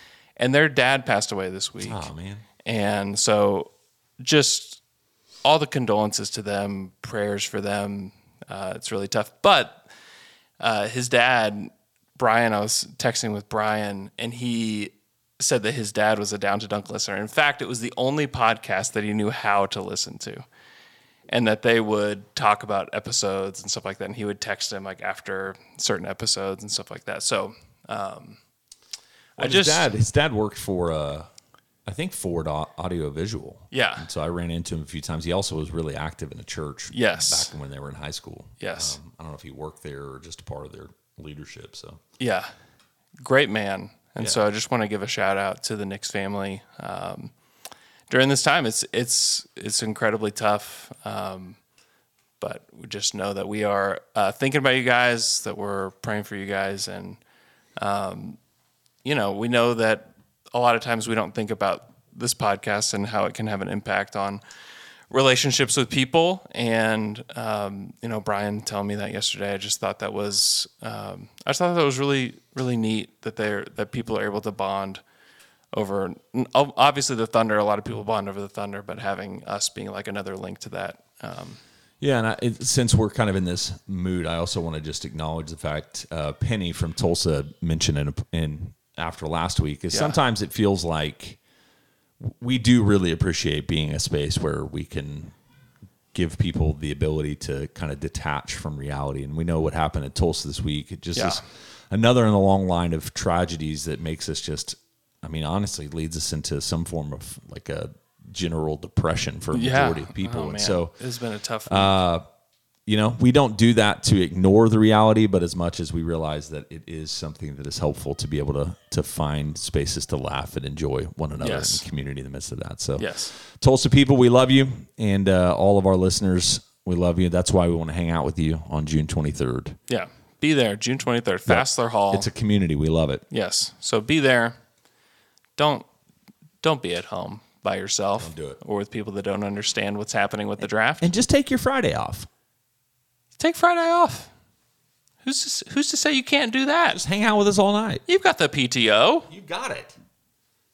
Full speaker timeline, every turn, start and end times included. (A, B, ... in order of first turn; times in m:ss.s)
0:00.4-0:02.0 A
0:01.8-0:02.4 B
0:02.6-0:04.8 A
0:05.4-0:09.8 A
0:10.6-0:20.4 A
0:21.3-0:28.4 A
0:29.4-0:29.9 A
0:29.4-0:31.3 B
0:31.9-0:42.0 B
0:33.7-0:34.1 A
0:36.9-0:37.5 A
0:38.6-0:39.0 A
0:42.2-0:42.5 A
0:43.2-0:47.3 A
0:48.1-0:51.6 A
0:52.4-0:57.2 A
0:57.8-0:58.4 A
0:59.0-1:04.4 A
1:05.1-1:15.0 A
1:15.7-1:21.6 A
1:22.0-1:31.4 B
1:29.9-1:30.2 A
1:32.2-1:35.3 B
1:36.1-1:50.9 B
1:41.2-1:41.4 A
1:49.5-1:52.0 A
1:51.7-1:52.3 B
1:52.9-2:09.8 B
2:01.4-2:01.8 A
2:03.0-2:03.3 A
2:09.9-2:12.3 A
2:11.5-2:13.2 B
2:13.3-2:14.6 A
2:15.6-2:15.8 A
2:16.6-2:21.1 A
2:18.2-2:18.6 B
2:20.6-2:22.3 B
2:23.4-2:24.3 A
2:25.2-2:27.0 A
2:26.9-2:28.0 B
2:28.1-2:29.3 A
2:29.3-2:29.9 B